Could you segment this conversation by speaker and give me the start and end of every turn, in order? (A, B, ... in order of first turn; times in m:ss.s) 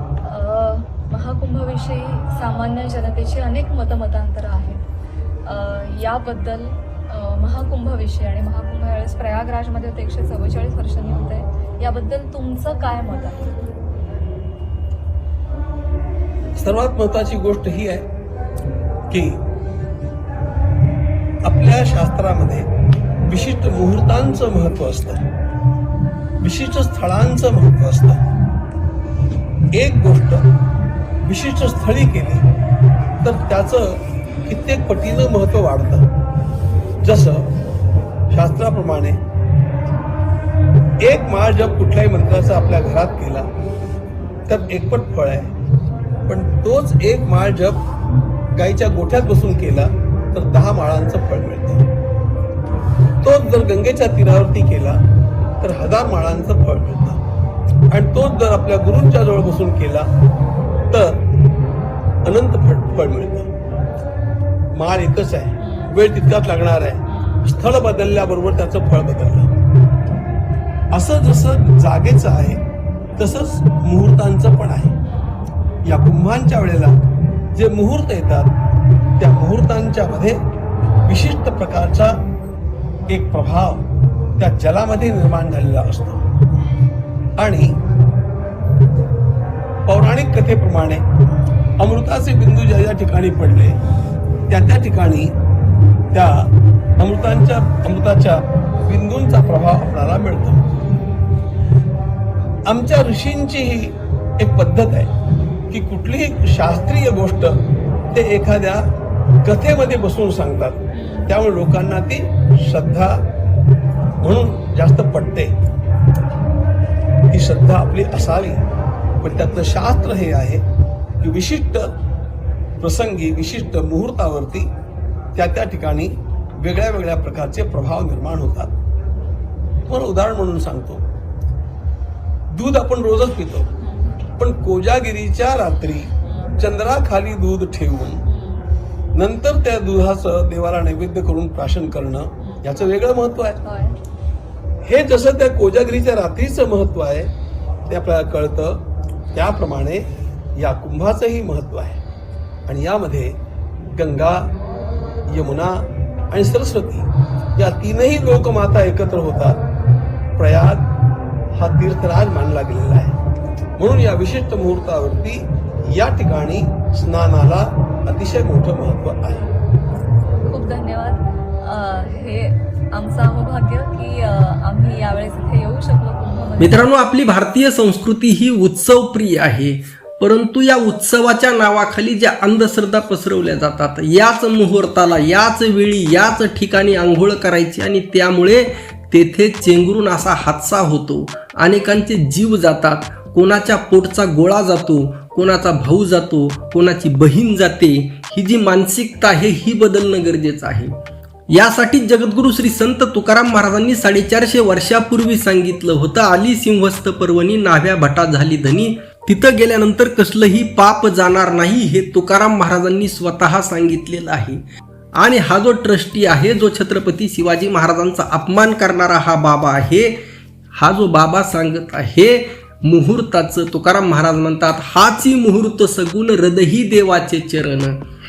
0:00.2-0:04.8 A
0:05.4-0:13.6 A
0:16.6-0:18.0 B
0:19.1-0:19.4 B
0:21.4-0:22.7 B
0:23.2-0:25.2 B
0:26.4-0:28.2 B
0:29.7-0:30.4 B
0:31.2-0:32.5 B
0:33.2-0:36.1 B
0:37.0-0:37.5 B
0:38.3-0:39.2 B
0:41.0-0:43.5 B
0:44.5-0:45.5 B
0:46.3-0:47.8 B
0:48.5-0:51.8 B
0:53.2-0:55.0 B
0:55.6-0:57.2 B
0:57.9-1:00.1 B
1:00.9-1:01.2 B
1:02.2-1:03.5 B
1:04.7-1:09.5 B
1:05.6-1:05.9 A
1:07.1-1:07.4 A
1:10.9-1:12.6 B
1:13.2-1:14.9 B
1:15.8-1:17.0 B
1:17.5-1:18.5 B
1:19.2-1:20.4 B
1:21.0-1:22.2 B
1:23.1-1:23.8 B
1:24.4-1:26.2 B
1:27.4-1:27.8 B
1:29.9-1:31.0 B
1:31.8-1:33.8 B
1:34.5-1:35.3 B
1:36.1-1:40.6 B
1:42.6-1:45.1 B
1:45.7-1:47.6 B
1:48.1-1:48.8 B
1:49.4-1:53.2 B
1:50.9-1:51.3 A
1:54.2-1:55.5 B
1:57.3-1:58.6 B
1:59.2-2:00.6 B
2:01.2-2:02.0 B
2:02.8-2:04.7 B
2:05.3-2:08.7 B
2:09.9-2:11.0 B
2:12.5-2:13.7 B
2:13.8-2:14.2 A
2:14.4-2:18.2 B
2:16.2-2:16.5 A
2:18.2-2:18.6 A
2:19.1-2:23.6 B
2:23.6-2:24.0 A
2:24.8-2:27.3 B
2:27.9-2:32.0 B
2:32.7-2:33.4 B
2:33.9-2:34.5 B
2:35.3-2:39.6 B
2:40.4-2:40.9 B
2:41.6-2:43.2 B
2:43.8-2:49.5 B
2:50.4-2:56.9 A
2:56.6-3:20.9 C
3:21.5-3:34.6 C
3:35.2-3:40.2 C
3:40.8-3:48.0 C